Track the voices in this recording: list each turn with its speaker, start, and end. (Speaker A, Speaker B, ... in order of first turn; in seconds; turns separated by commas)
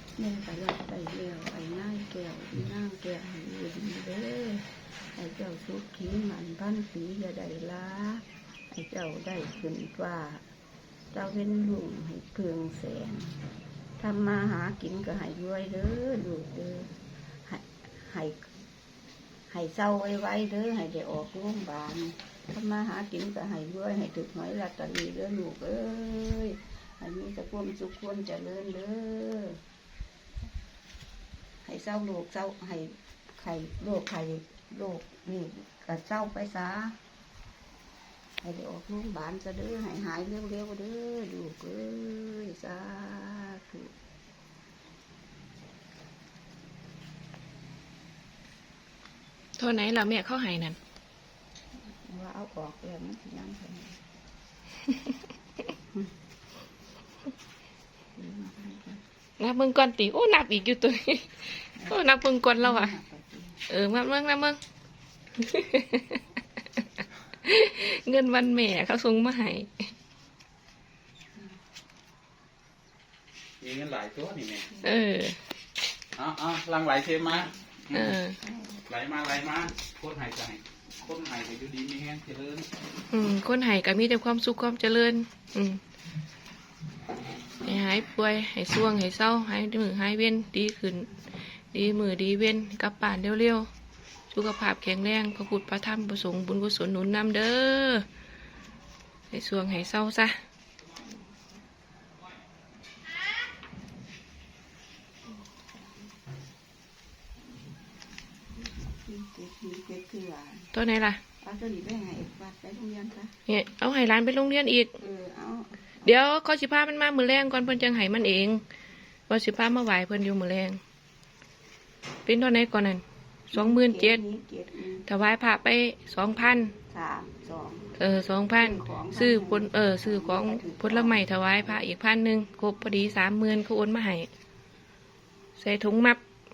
Speaker A: 0.2-10.4, Speaker A: 11.1-13.4, Speaker A: 14.0-18.5, Speaker A: 19.5-29.6, Speaker A: 31.6-37.0, Speaker A: 38.4-43.9, Speaker B: 49.6-50.8, Speaker A: 51.7-54.0, Speaker A: 58.1-59.0, Speaker B: 59.4-62.9, Speaker A: 61.7-63.6, Speaker B: 63.7-64.6, Speaker B: 65.4-66.2, Speaker B: 67.4-69.9, Speaker C: 73.6-74.7, Speaker B: 74.8-75.4, Speaker C: 76.2-78.2, Speaker B: 77.9-78.4, Speaker A: 78.4-78.8, Speaker C: 78.9-82.7, Speaker B: 83.1-85.8, Speaker B: 87.6-93.7, Speaker B: 94.3-98.0, Speaker B: 99.3-100.3, Speaker A: 101.1-101.6, Speaker A: 105.2-106.1, Speaker A: 108.6-110.7, Speaker B: 110.7-111.2, Speaker A: 111.4-113.3, Speaker B: 113.5-114.9, Speaker A: 115.0-116.1, Speaker B: 116.0-118.6, Speaker B: 119.3-120.8, Speaker B: 122.2-123.0, Speaker A: 123.5-125.1, Speaker B: 123.5-124.2, Speaker B: 125.1-126.7, Speaker A: 126.9-128.0, Speaker B: 128.0-134.3, Speaker A: 128.5-131.8, Speaker B: 135.6-136.2